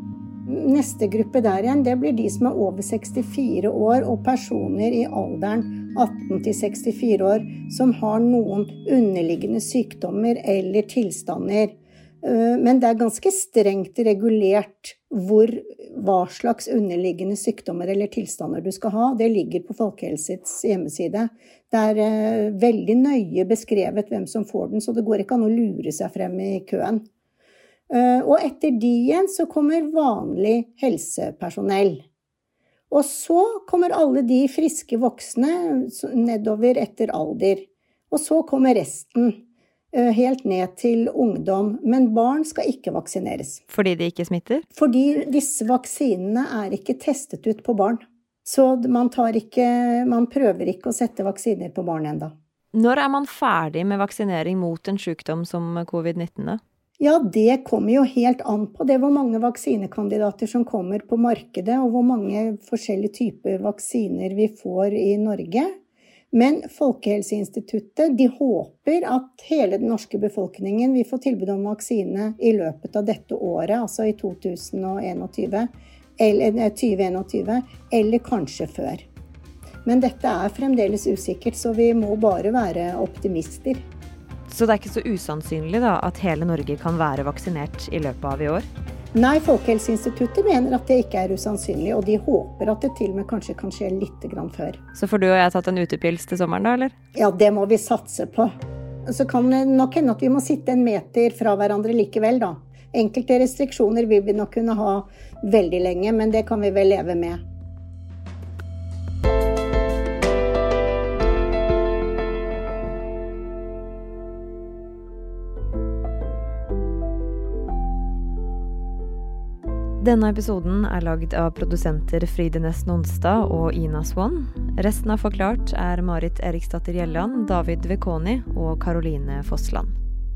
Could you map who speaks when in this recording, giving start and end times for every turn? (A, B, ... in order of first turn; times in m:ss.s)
0:00.5-0:27.0 A
0:27.9-0:32.0 A
0:32.9-0:39.4 A
0:39.9-0:43.6 A
0:43.7-0:44.6 B
0:44.7-0:52.3 A
0:52.7-0:56.6 B
0:57.0-1:05.7 A
1:06.3-1:19.0 A
1:19.8-1:23.8 A
1:24.5-1:28.6 B
1:29.1-1:34.8 A
1:34.9-1:36.9 B
1:37.2-1:38.5 A
1:39.1-1:47.4 A
2:00.0-2:09.9 B